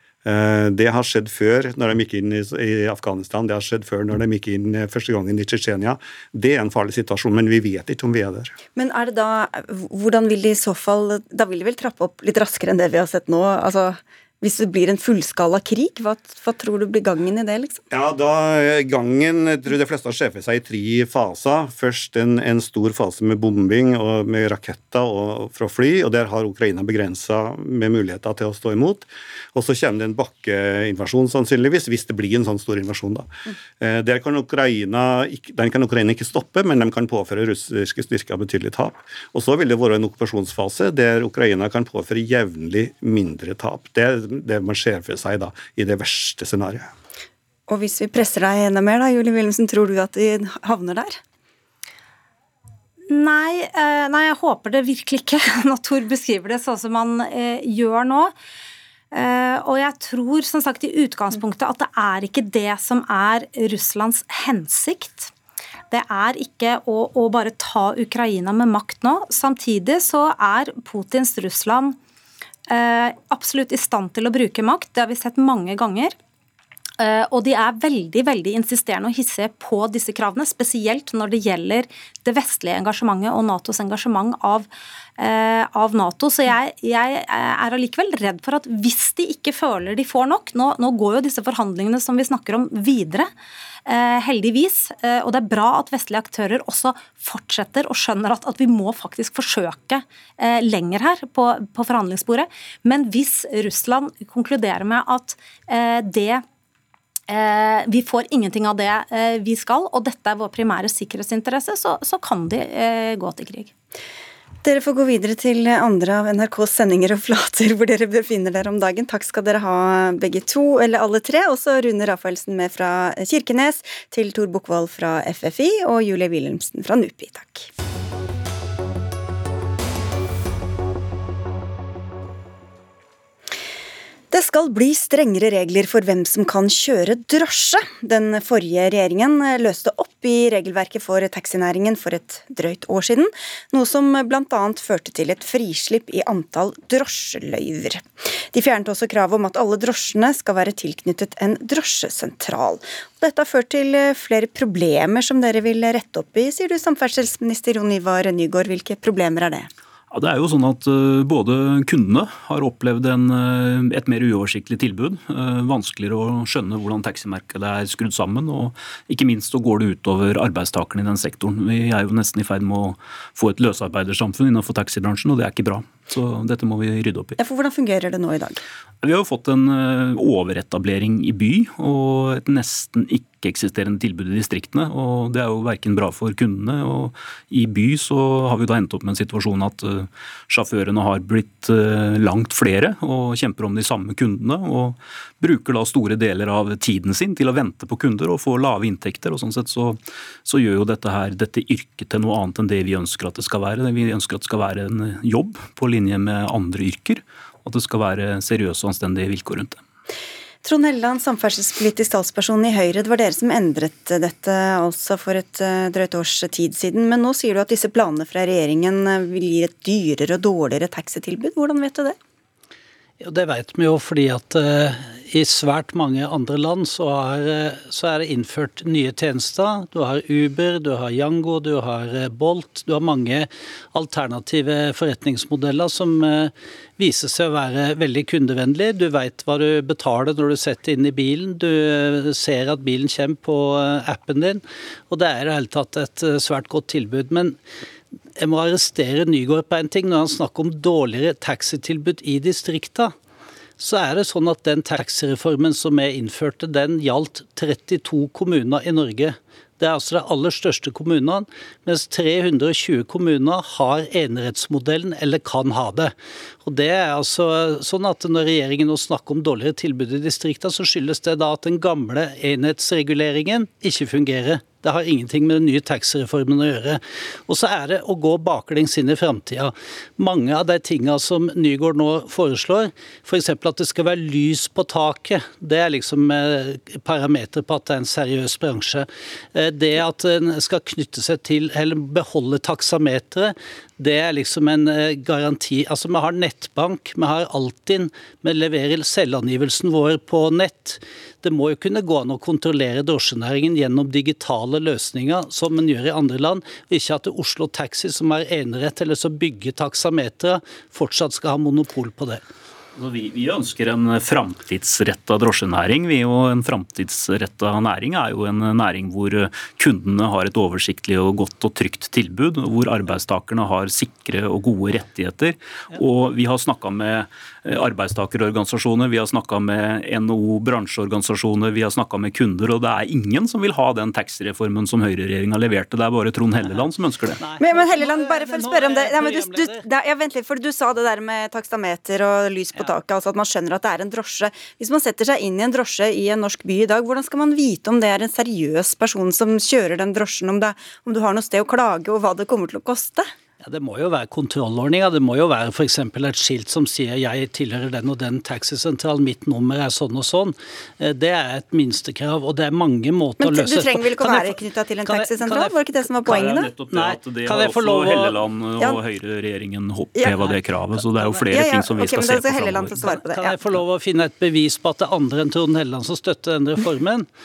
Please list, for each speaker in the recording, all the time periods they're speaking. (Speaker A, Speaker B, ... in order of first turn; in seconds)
Speaker A: 0.2-8.5, 17.9-46.9
Speaker B: 8.7-17.8, 47.7-51.2, 114.6-127.7, 134.3-159.7, 177.4-178.6, 210.6-222.2, 337.6-353.3, 363.4-366.7, 371.4-373.6
Speaker C: 53.1-58.3, 59.1-65.3, 65.9-72.0, 72.7-76.1, 77.0-93.3, 93.8-106.4, 107.3-113.7
Speaker D: 160.1-177.4, 179.0-209.8, 312.9-337.4, 366.3-373.0
Speaker E: 223.2-247.6, 248.4-253.1, 253.8-266.1, 266.6-312.4, 337.4-339.8, 353.6-368.4, 373.0-377.3